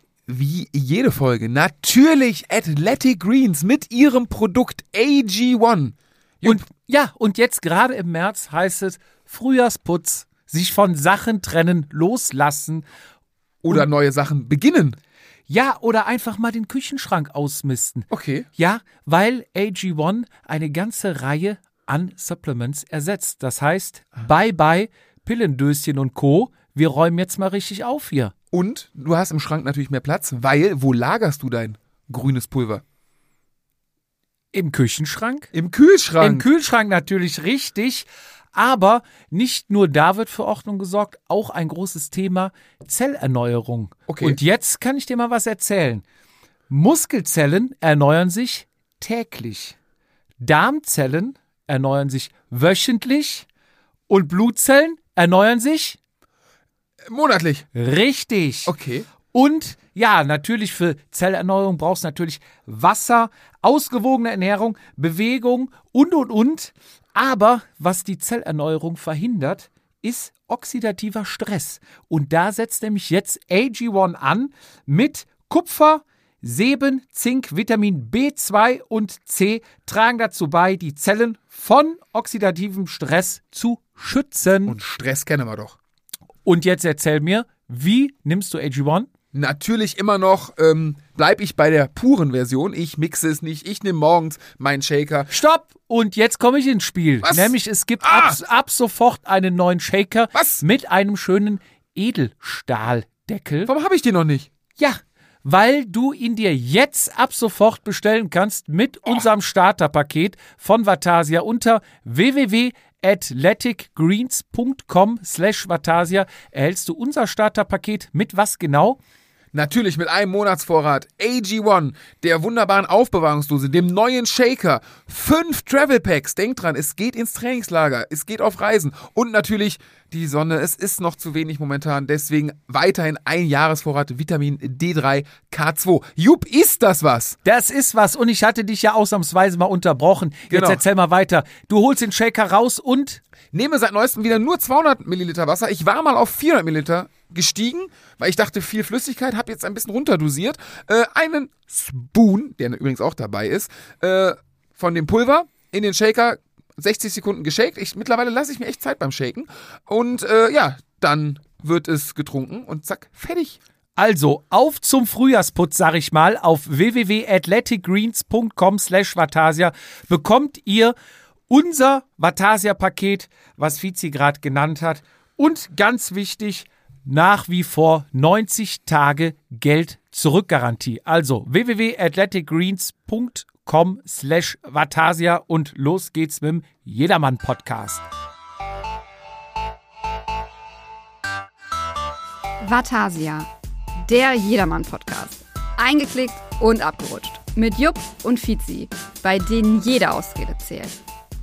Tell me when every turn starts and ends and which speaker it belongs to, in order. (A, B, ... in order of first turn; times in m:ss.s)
0:00.3-0:06.7 A
0:06.4-0:12.8 B
0:13.6-0:15.0 A
0:15.5-0:28.3 B
0:18.1-0:18.5 A
0:28.5-0:32.8 A
0:34.5-0:35.5 B
0:35.5-0:36.5 A
0:36.2-0:46.0 B
0:44.1-0:44.4 A
0:46.7-0:49.8 B
0:50.4-0:53.4 B
0:54.1-0:56.0 B
0:57.0-0:57.7 A
0:57.7-0:58.7 B
0:58.7-0:59.1 A
0:59.3-1:24.8 B
1:24.7-1:25.8 A
1:26.4-1:29.1 B
1:29.3-1:35.3 A
1:35.3-1:43.7 B
1:37.2-1:38.4 A
1:40.3-1:40.6 A
1:43.6-1:44.5 A
1:44.8-1:59.0 B
1:59.5-2:17.4 A
2:17.4-2:23.2 B
2:20.5-2:20.8 A
2:23.5-2:43.6 A
2:44.0-2:50.9 B
2:51.5-3:08.0 B
3:12.6-3:13.5 C
3:14.0-3:21.0 C